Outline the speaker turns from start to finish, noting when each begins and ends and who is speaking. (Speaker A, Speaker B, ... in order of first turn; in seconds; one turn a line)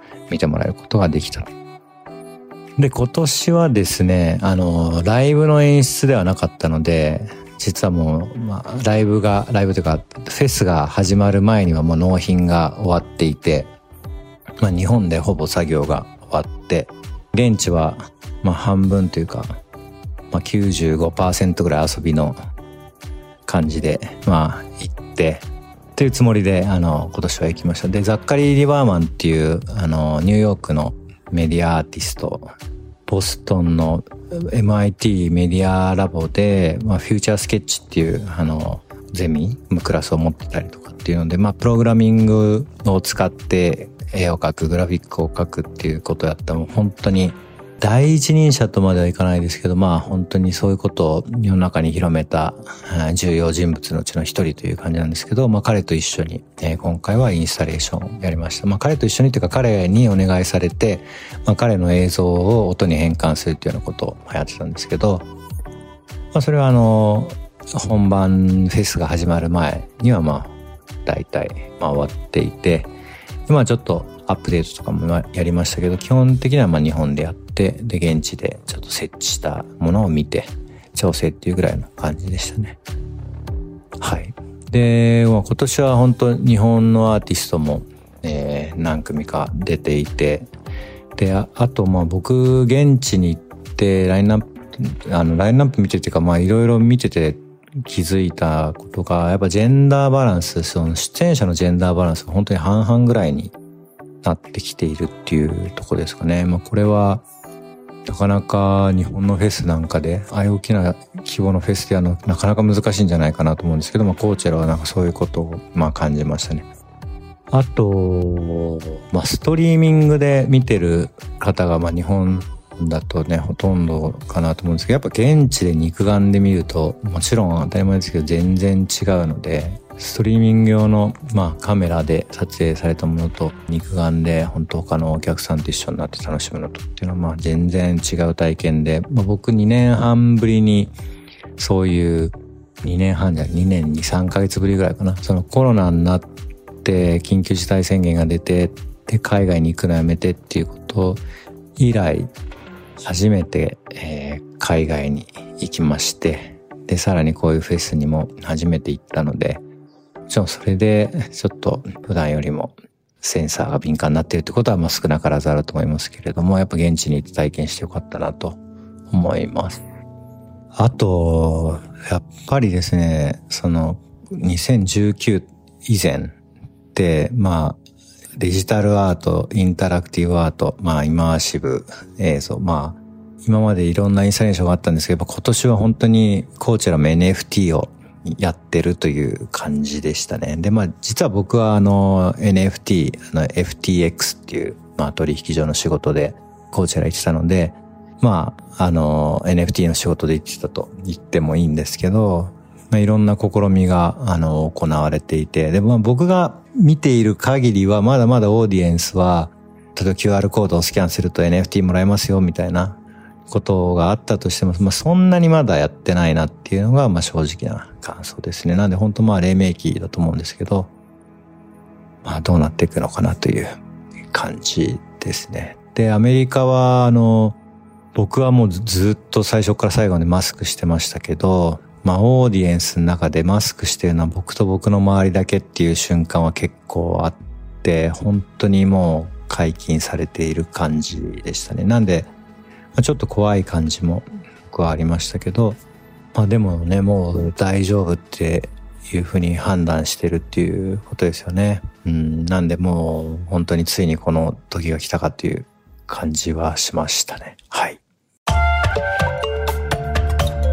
Speaker A: 0.3-1.5
Speaker A: 2.8-13.7
Speaker A: 14.6-19.6
Speaker A: 20.3-22.4
Speaker A: 23.4-32.5
Speaker A: 33.0-65.3
Speaker A: 66.3-72.9
Speaker A: 73.5-82.8
Speaker A: 84.0-90.5
Speaker A: 91.2-103.5
Speaker A: 104.2-107.2
Speaker A: 108.0-116.7
Speaker A: 117.5-140.9
Speaker A: 141.6-146.3
Speaker A: 146.8-151.2
Speaker A: 151.8-152.3
Speaker A: 153.0-159.6
Speaker A: 160.3-169.8
Speaker A: 170.7-176.3
Speaker A: 176.9-177.8
Speaker A: 178.3-220.9
Speaker A: 222.2-223.7
Speaker A: 224.2-227.6
Speaker A: 228.1-242.3
Speaker A: 242.9-245.8
Speaker A: 246.3-258.0